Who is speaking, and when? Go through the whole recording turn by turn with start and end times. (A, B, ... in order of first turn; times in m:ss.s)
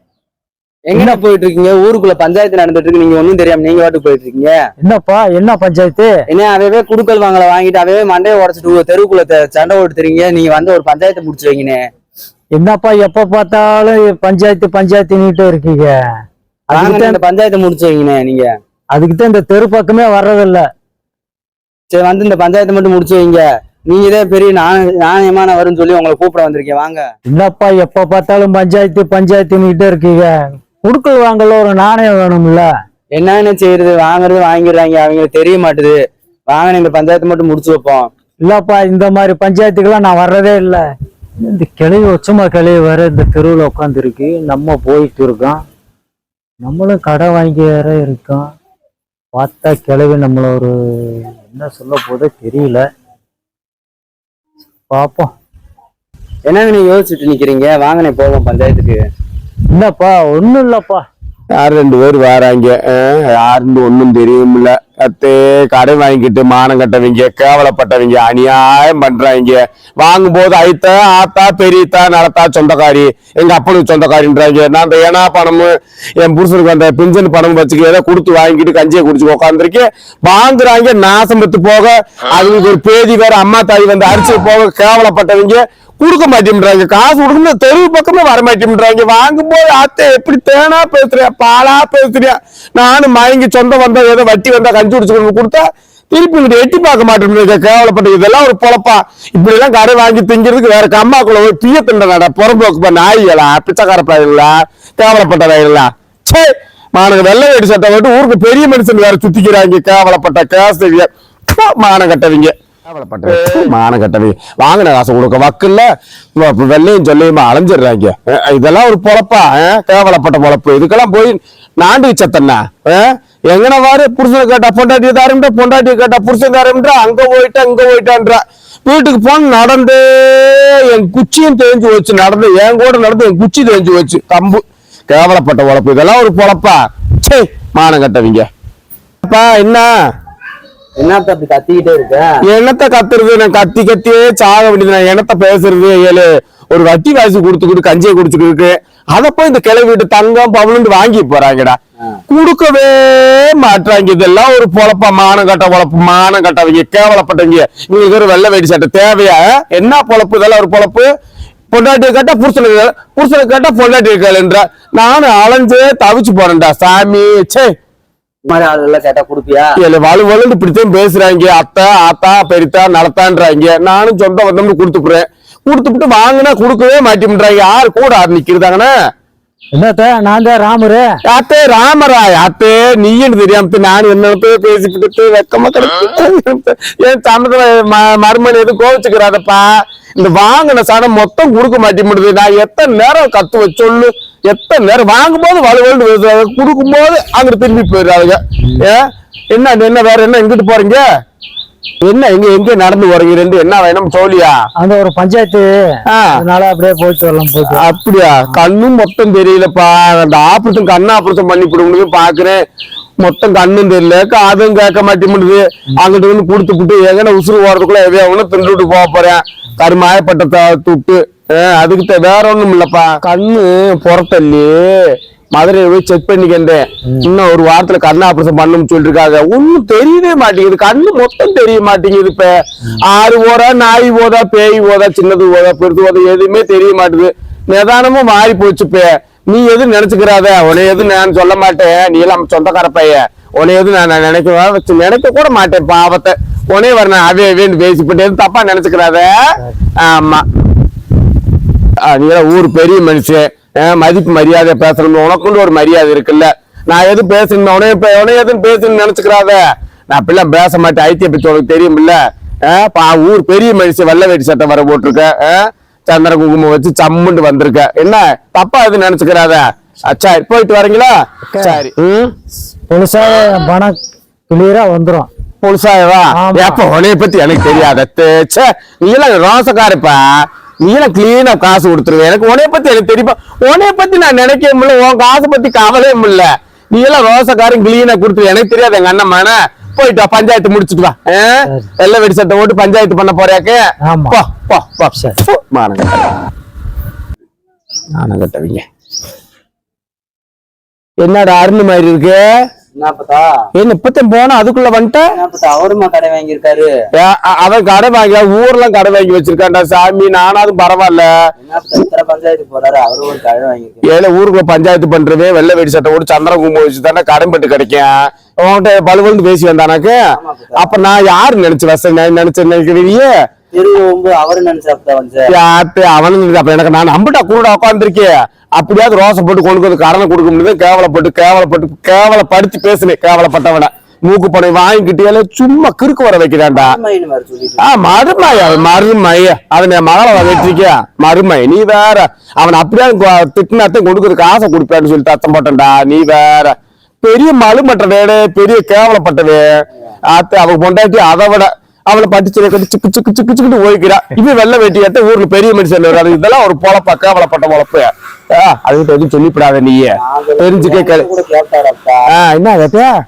0:00.9-0:04.5 A
0:00.9-0:01.2 B
0:04.8-0:06.1 B
0:06.3-0:11.8 A
0:12.6-0:15.9 B
0:16.7-0:18.5 A
0:16.7-0:17.2 B
0:18.9-0:20.6 B
0:21.9-0:27.0 A
0:27.3-0:32.7 B
0:33.2-0:36.0 A
0:36.5-0:38.1 A
0:38.4-0:40.8 B
0:41.4-0:45.6 B
0:46.6-0:48.4 B
0:49.4-0:52.8 B
0:54.9-0:55.3 B
0:56.5-0:59.0 A
0:59.8-1:01.0 B
1:01.6-2:18.4 C
2:19.2-2:19.9 C
2:21.0-2:22.3 A
2:22.4-2:31.8 C
2:32.3-2:41.1 C
2:41.7-2:47.7 C
2:48.5-2:49.7 A
2:49.8-2:58.9 C
2:59.7-3:01.1 B
3:01.2-3:21.0 C
3:22.0-3:24.6 C
3:24.8-3:25.6 B
3:26.1-3:26.4 C
3:26.3-3:27.9 B
3:27.7-3:32.6 C
3:33.2-4:10.4 C
4:12.0-4:32.3 C
4:31.5-4:31.8 B
4:32.9-4:33.9 B
4:34.5-4:35.3 B
4:35.6-4:40.2 C
4:36.3-4:36.8 B
4:40.8-4:53.8 C
4:54.1-4:54.4 B
4:54.3-4:56.3 C
4:58.2-4:58.8 C
5:01.2-5:02.4 C
5:03.0-5:03.5 A
5:03.7-5:05.2 C
5:05.4-5:06.9 A
5:07.1-5:11.3 C
5:11.6-5:14.0 A
5:14.0-5:20.2 C
5:20.3-5:21.0 A
5:20.8-5:23.3 C
5:23.7-5:25.5 A
5:25.5-5:37.0 C
5:36.7-5:37.9 A
5:37.8-5:49.7 C
5:50.3-6:01.2 C
6:00.2-6:02.3 A
6:02.3-6:03.1 C